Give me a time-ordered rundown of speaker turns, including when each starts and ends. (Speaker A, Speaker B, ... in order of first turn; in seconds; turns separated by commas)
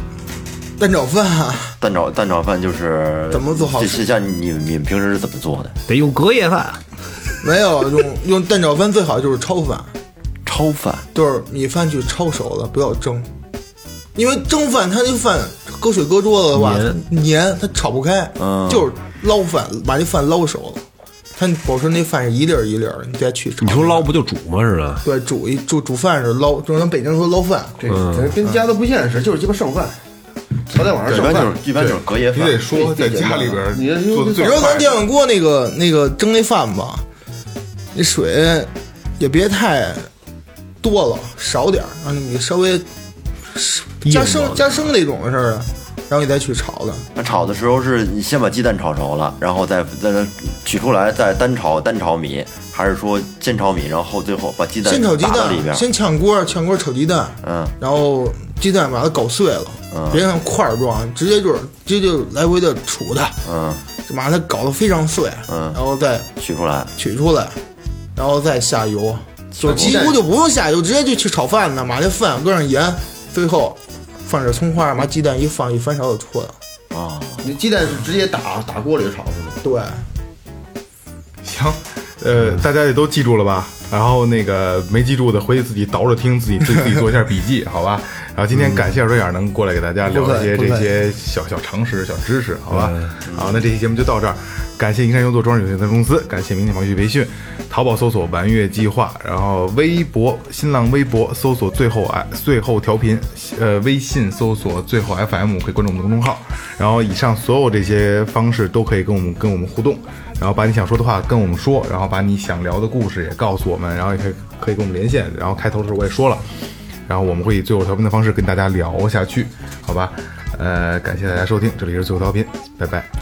Speaker A: 0.8-1.8, Speaker B: 1.8-5.8, Speaker A: 3.3-4.1, Speaker C: 5.9-6.8, Speaker A: 7.4-9.9, Speaker B: 10.4-11.1, Speaker A: 11.1-13.3, Speaker A: 14.2-20.8, Speaker C: 16.5-17.0, Speaker B: 18.4-18.9, Speaker A: 21.4-24.1, Speaker C: 23.6-25.0, Speaker A: 25.0-27.9, Speaker D: 27.8-30.0, Speaker C: 27.9-28.4, Speaker D: 30.7-31.6, Speaker E: 31.1-35.0, Speaker B: 31.1-32.7, Speaker D: 32.7-34.9, Speaker A: 34.4-37.0, Speaker A: 37.9-40.1, Speaker A: 40.8-42.9, Speaker A: 43.5-47.1, Speaker C: 44.0-44.8, Speaker B: 47.1-55.8, Speaker A: 54.8-63.4, Speaker B: 57.4-57.7, Speaker B: 59.9-60.2, Speaker B: 63.5-63.8, Speaker A: 64.0-66.3, Speaker B: 65.5-65.8, Speaker B: 66.4-66.9, Speaker A: 67.0-67.6, Speaker A: 68.2-76.6, Speaker B: 69.6-70.0, Speaker D: 69.6-70.2, Speaker B: 76.9-77.5, Speaker D: 77.4-79.6, Speaker A: 79.6-80.1, Speaker E: 81.4-123.1, Speaker A: 90.1-90.9, Speaker C: 92.7-93.2, Speaker B: 93.2-93.7